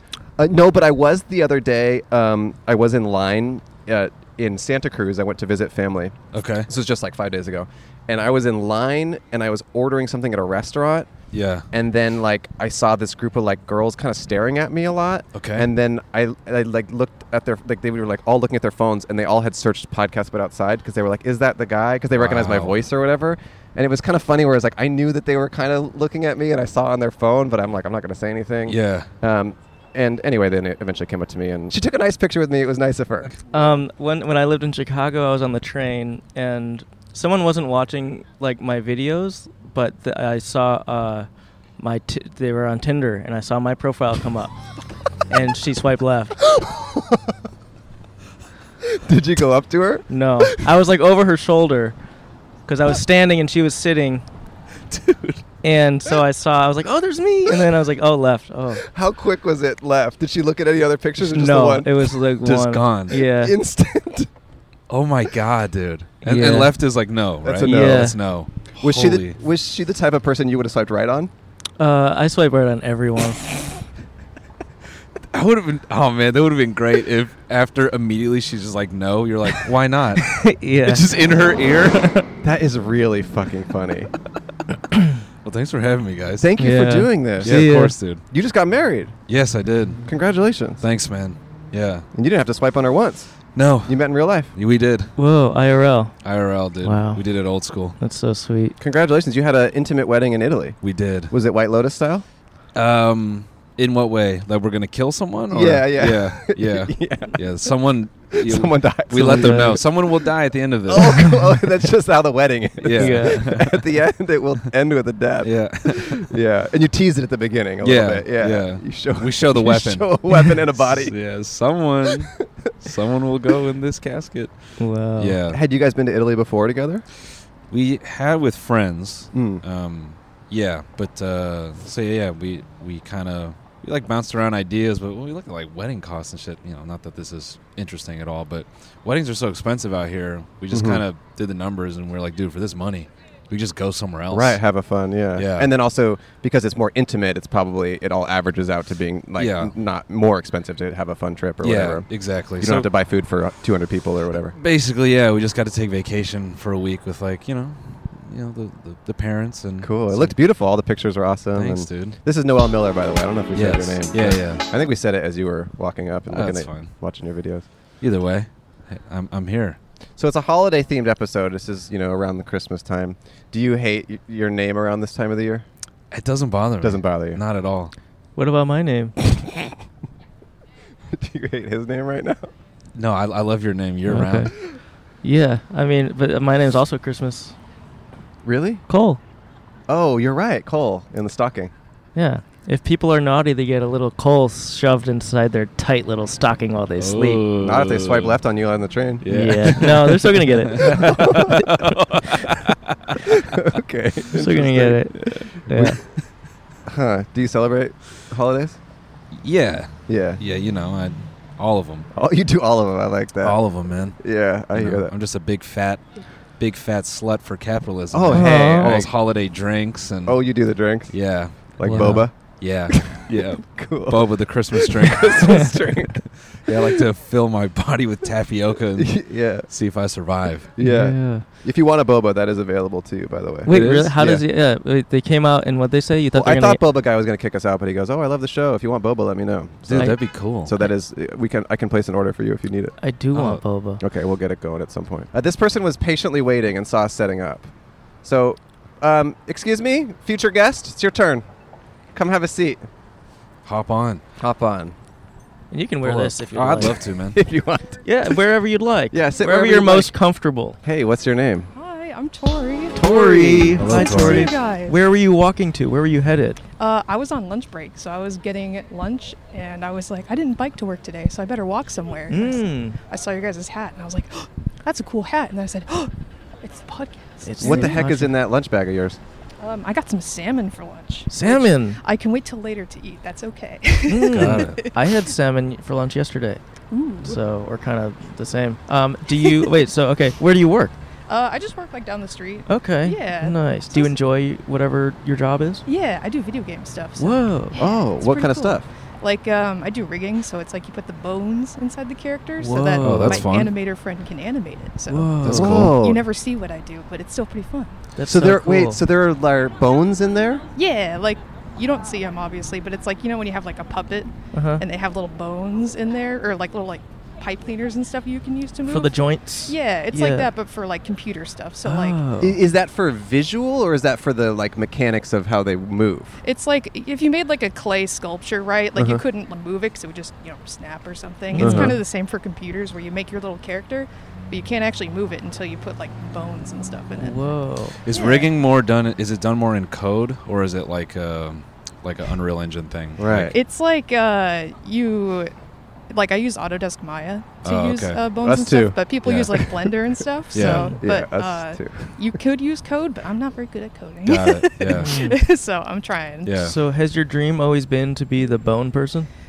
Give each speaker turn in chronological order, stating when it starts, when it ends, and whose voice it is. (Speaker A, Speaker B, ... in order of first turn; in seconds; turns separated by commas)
Speaker A: 0.4-11.1, Speaker B: 6.3-6.7, Speaker B: 11.3-11.7, Speaker A: 11.7-33.4, Speaker B: 15.3-15.7, Speaker B: 22.1-22.8, Speaker B: 28.7-29.1, Speaker C: 33.5-44.5, Speaker C: 45.3-46.4, Speaker A: 46.5-47.4, Speaker A: 48.8-50.0, Speaker C: 50.1-52.0, Speaker C: 52.7-54.2, Speaker B: 54.9-55.4, Speaker C: 55.6-58.8, Speaker A: 58.9-62.2, Speaker C: 61.2-63.5, Speaker B: 62.4-63.1, Speaker A: 63.1-64.3, Speaker B: 64.9-69.4, Speaker C: 66.2-66.7, Speaker A: 67.4-68.2, Speaker C: 67.7-68.2, Speaker A: 68.8-71.3, Speaker C: 71.8-73.5, Speaker B: 75.3-82.0, Speaker C: 80.2-81.0, Speaker C: 81.9-82.2, Speaker A: 82.4-84.1, Speaker B: 85.4-86.5, Speaker A: 86.4-87.7, Speaker C: 86.6-88.0, Speaker B: 87.4-88.2, Speaker A: 88.3-89.1, Speaker B: 89.3-90.0, Speaker A: 90.1-90.8, Speaker B: 90.8-92.1, Speaker A: 92.1-93.3, Speaker B: 93.5-95.1, Speaker A: 93.8-94.5, Speaker C: 95.2-96.2, Speaker B: 96.2-98.0, Speaker C: 96.8-97.2, Speaker C: 98.0-98.8, Speaker A: 98.8-100.8, Speaker B: 100.8-101.3, Speaker A: 101.3-102.2, Speaker B: 102.8-111.4, Speaker A: 105.5-107.5, Speaker A: 108.3-110.1, Speaker C: 109.2-109.8, Speaker A: 110.9-121.1, Speaker B: 112.8-113.8, Speaker C: 113.0-113.5, Speaker B: 115.4-116.3, Speaker B: 117.8-125.6, Speaker C: 124.8-125.4, Speaker A: 125.5-127.0, Speaker B: 127.7-144.6, Speaker A: 129.3-129.6, Speaker A: 140.7-141.0, Speaker A: 144.3-154.6, Speaker B: 145.4-145.7, Speaker B: 149.4-149.8, Speaker B: 151.6-152.9, Speaker B: 154.5-160.4, Speaker A: 159.8-167.7, Speaker B: 161.5-162.2, Speaker B: 163.6-164.7, Speaker B: 166.3-166.9, Speaker B: 168.0-169.8, Speaker A: 170.2-175.7, Speaker B: 176.1-177.9, Speaker A: 176.8-177.4, Speaker C: 178.4-179.2, Speaker A: 181.1-182.5, Speaker B: 183.0-184.6, Speaker C: 184.1-184.5, Speaker C: 185.2-187.5, Speaker A: 188.4-188.8, Speaker C: 188.9-189.2, Speaker A: 189.9-191.7, Speaker C: 192.2-197.4, Speaker B: 197.0-198.4, Speaker A: 197.6-199.9, Speaker B: 199.2-203.2, Speaker C: 199.3-201.8, Speaker A: 200.8-201.7, Speaker A: 203.4-206.0, Speaker C: 204.3-206.0, Speaker A: 206.9-208.8, Speaker B: 209.3-212.1, Speaker A: 210.1-210.4, Speaker A: 212.1-213.6, Speaker B: 213.4-216.0, Speaker A: 214.2-215.1, Speaker B: 216.6-220.6, Speaker A: 218.1-219.1, Speaker C: 218.3-218.9, Speaker A: 220.2-227.0, Speaker B: 221.1-230.7, Speaker C: 221.9-222.3, Speaker A: 229.0-229.7, Speaker A: 230.7-233.7, Speaker C: 230.8-231.4, Speaker C: 233.7-236.8, Speaker B: 233.7-234.4, Speaker A: 236.3-243.0, Speaker B: 239.9-240.7, Speaker C: 239.9-240.9, Speaker C: 243.0-244.0, Speaker B: 243.3-243.6, Speaker A: 244.0-247.7, Speaker A: 248.2-251.4, Speaker A: 252.1-252.8, Speaker B: 253.7-254.2, Speaker A: 254.4-254.9, Speaker C: 255.7-257.0, Speaker B: 256.0-257.4, Speaker A: 257.3-258.0, Speaker C: 258.1-260.8, Speaker A: 259.1-260.1, Speaker A: 260.8-261.7, Speaker D: 261.7-263.0, Speaker A: 262.9-263.9, Speaker C: 262.9-266.6, Speaker B: 263.8-264.5, Speaker D: 263.9-265.0, Speaker D: 266.8-276.1, Speaker C: 272.3-273.0, Speaker D: 276.6-278.0, Speaker C: 277.4-278.3, Speaker A: 277.6-279.2, Speaker D: 279.6-285.1, Speaker C: 281.3-282.0, Speaker C: 284.1-286.6, Speaker B: 284.3-284.8, Speaker D: 286.9-287.4, Speaker C: 287.2-291.0, Speaker D: 291.3-294.1, Speaker C: 292.7-295.9, Speaker D: 295.9-308.0, Speaker C: 297.2-297.8, Speaker A: 297.8-298.9, Speaker C: 302.6-303.5, Speaker B: 303.0-303.7, Speaker C: 305.1-305.7, Speaker B: 305.4-306.0, Speaker A: 305.5-306.2, Speaker C: 308.2-309.0, Speaker A: 308.2-310.6, Speaker D: 310.8-322.2, Speaker C: 314.5-314.8, Speaker C: 318.9-320.5, Speaker C: 321.8-322.6, Speaker A: 322.4-326.4, Speaker D: 326.4-337.4, Speaker A: 329.0-329.2, Speaker C: 331.5-332.0, Speaker A: 331.6-332.0, Speaker C: 337.2-338.0, Speaker B: 338.1-343.5, Speaker D: 338.1-338.5, Speaker A: 343.2-343.6, Speaker D: 343.5-345.5, Speaker D: 346.1-356.6, Speaker B: 347.6-348.2, Speaker A: 348.4-349.0, Speaker B: 349.2-349.5, Speaker A: 349.5-349.9, Speaker B: 350.5-350.9, Speaker C: 350.6-351.0, Speaker A: 351.0-352.2, Speaker B: 354.3-355.2, Speaker C: 354.9-355.4, Speaker B: 356.4-356.8, Speaker C: 356.6-359.3